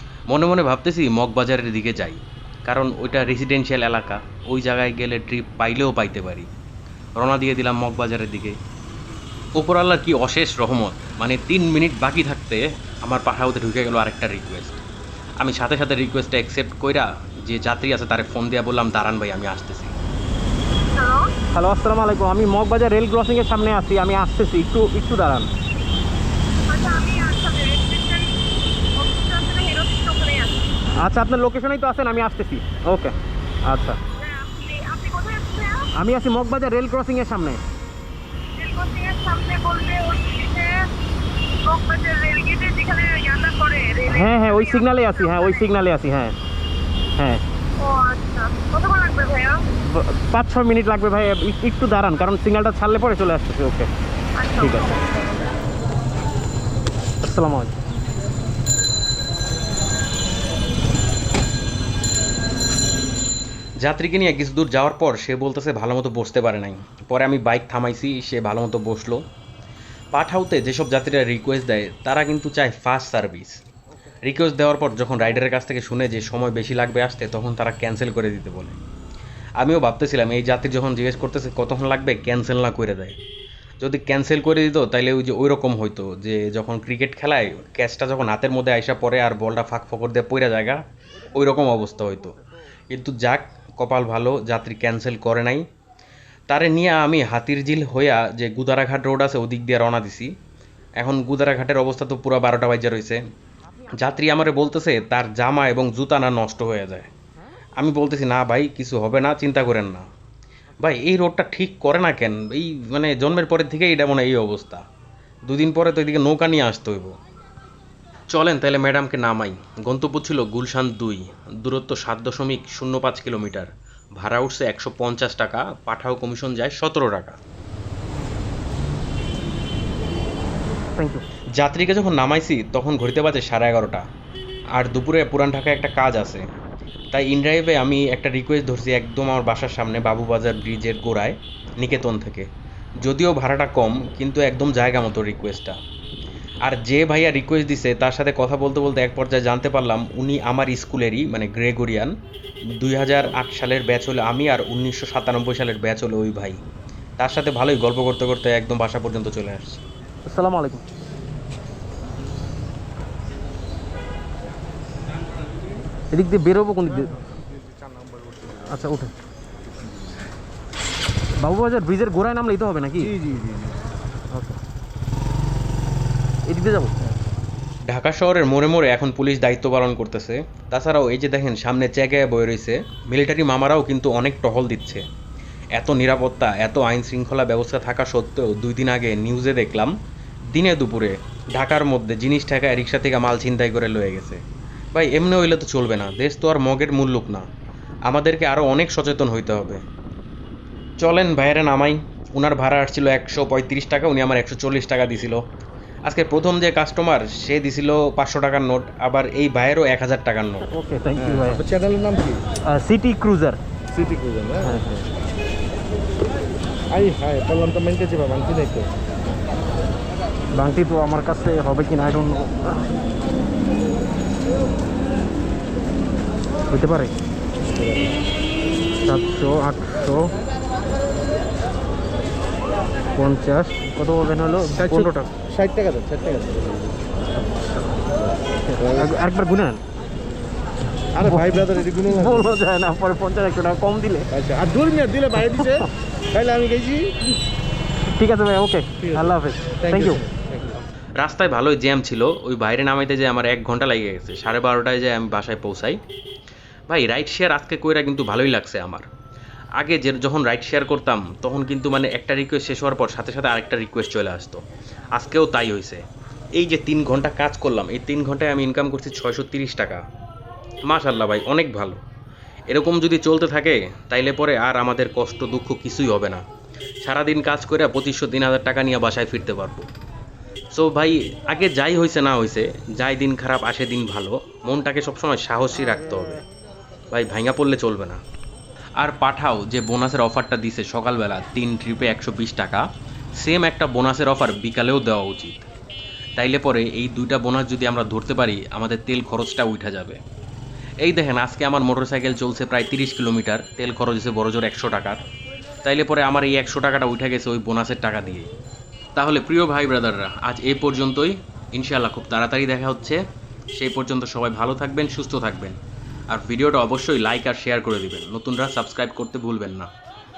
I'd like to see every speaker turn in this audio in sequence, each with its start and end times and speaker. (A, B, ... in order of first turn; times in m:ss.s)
0:00.3-0:06.5 A
0:07.2-0:08.6 A
0:09.6-0:14.8 A
0:15.4-0:19.9 A
0:20.9-0:21.3 B
0:21.5-0:25.5 C
0:26.7-0:28.4 B
0:29.0-0:30.7 B
0:31.0-0:34.0 C
0:34.2-0:35.9 B
0:35.9-0:37.6 C
0:38.5-0:40.9 B
0:41.6-0:45.7 B
0:44.1-0:46.3 C
0:47.2-0:47.4 C
0:47.8-0:49.6 B
0:49.9-0:53.9 C
0:54.4-0:55.1 B
0:54.6-0:54.9 C
0:57.2-0:57.8 C
1:03.8-1:09.2 A
1:10.1-1:13.6 A
1:14.2-1:18.8 A
1:19.6-1:23.2 A
1:23.8-1:32.4 A
1:32.9-1:35.6 A
1:36.5-1:40.3 A
1:41.0-1:43.2 A
1:43.9-1:47.1 A
1:47.8-1:50.0 A
1:50.8-1:54.8 A
1:55.5-1:57.1 A
1:58.3-2:07.4 A
2:11.0-2:11.2 C
2:11.6-2:14.0 A
2:14.7-2:16.4 A
2:17.1-2:22.5 A
2:23.0-2:25.8 A
2:26.6-2:32.1 A
2:32.8-2:36.6 A
2:37.2-2:39.8 A
2:40.3-2:40.8 C
2:46.1-2:47.2 C
2:48.1-2:48.6 D
2:48.6-2:49.1 C
2:51.4-2:53.2 C
2:53.0-2:53.8 D
2:54.3-2:54.6 C
2:56.5-2:56.9 C
2:57.9-3:05.0 A
3:05.7-3:09.9 A
3:10.5-3:14.4 A
3:14.9-3:17.4 A
3:18.1-3:19.8 A
3:21.0-3:25.4 A
3:26.0-3:30.7 A
3:30.7-3:31.6 C
3:31.2-3:32.4 D
3:32.7-3:33.6 C
3:33.9-3:34.7 D
3:34.6-3:35.1 C
3:36.9-3:38.9 D
3:40.5-3:42.8 C
3:46.7-3:47.1 C
3:47.8-3:48.1 D
3:49.0-3:50.3 C
3:53.1-3:55.3 C
3:54.6-3:56.7 D
3:57.3-3:57.9 C
3:58.6-3:59.8 C
3:58.8-3:59.1 D
4:01.1-4:02.5 D
4:01.2-4:04.3 C
4:04.3-4:07.1 D
4:05.3-4:05.9 C
4:08.1-4:10.2 C
4:09.0-4:10.8 D
4:11.2-4:16.0 A
4:16.9-4:19.0 A
4:19.8-4:24.6 A
4:25.1-4:26.0 A
4:26.6-4:30.0 A
4:30.9-4:32.0 A
4:32.7-4:36.4 A
4:37.0-4:39.9 A
4:40.7-4:46.4 A
4:47.1-4:48.2 A
4:49.0-4:52.8 A
4:53.4-4:55.6 A
4:56.4-5:00.2 A
5:01.0-5:05.2 A
5:05.8-5:08.5 A
5:09.2-5:13.2 A
5:13.8-5:15.8 A
5:16.3-5:19.9 A